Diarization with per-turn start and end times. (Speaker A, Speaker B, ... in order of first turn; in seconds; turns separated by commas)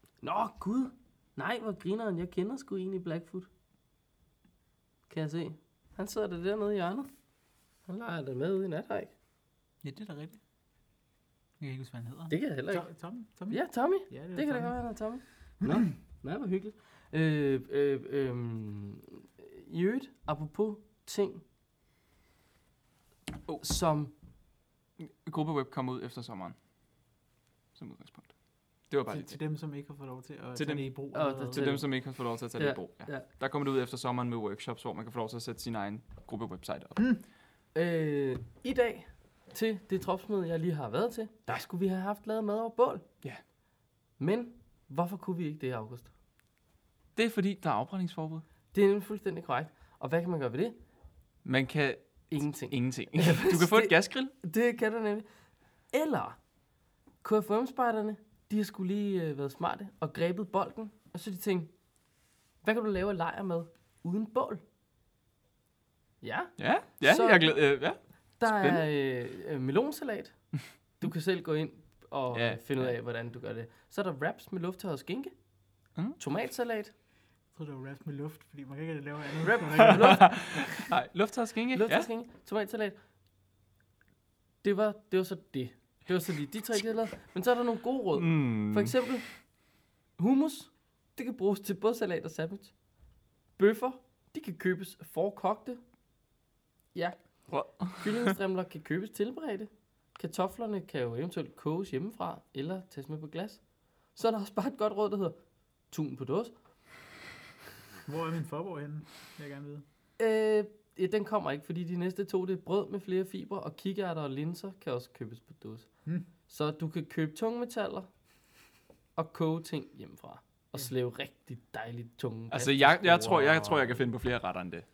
Speaker A: 0.2-3.5, Speaker A: 5.1-7.1, Speaker A: 7.9-9.1, Speaker B: 9.8-10.4, Speaker B: 11.6-14.8, Speaker A: 12.3-12.9, Speaker A: 13.5-21.4, Speaker A: 23.6-24.1, Speaker C: 25.0-26.6, Speaker C: 27.8-28.3, Speaker C: 28.9-29.4, Speaker B: 29.1-31.6, Speaker C: 30.6-30.9, Speaker A: 31.1-31.9, Speaker C: 31.5-37.0, Speaker A: 32.5-33.3, Speaker A: 37.7-43.0, Speaker A: 44.2-46.1, Speaker C: 47.1-48.4, Speaker A: 48.7-50.8, Speaker C: 51.4-54.3, Speaker A: 52.3-55.3, Speaker A: 55.9-56.4, Speaker A: 57.2-61.7, Speaker A: 62.6-64.6, Speaker A: 66.2-67.7, Speaker C: 66.6-68.8, Speaker A: 68.4-75.3, Speaker C: 72.3-72.9, Speaker A: 76.2-76.9, Speaker B: 77.5-80.7, Speaker A: 79.4-80.4, Speaker C: 79.8-82.1, Speaker A: 81.7-83.0, Speaker A: 84.6-89.4, Speaker C: 88.1-88.9, Speaker A: 90.2-92.7, Speaker A: 93.6-95.8, Speaker C: 97.5-98.3, Speaker A: 98.0-103.6, Speaker A: 104.1-105.4, Speaker A: 105.9-106.5, Speaker B: 108.0-109.8, Speaker A: 110.2-115.9, Speaker A: 116.5-118.1, Speaker A: 119.2-124.0, Speaker C: 122.5-124.8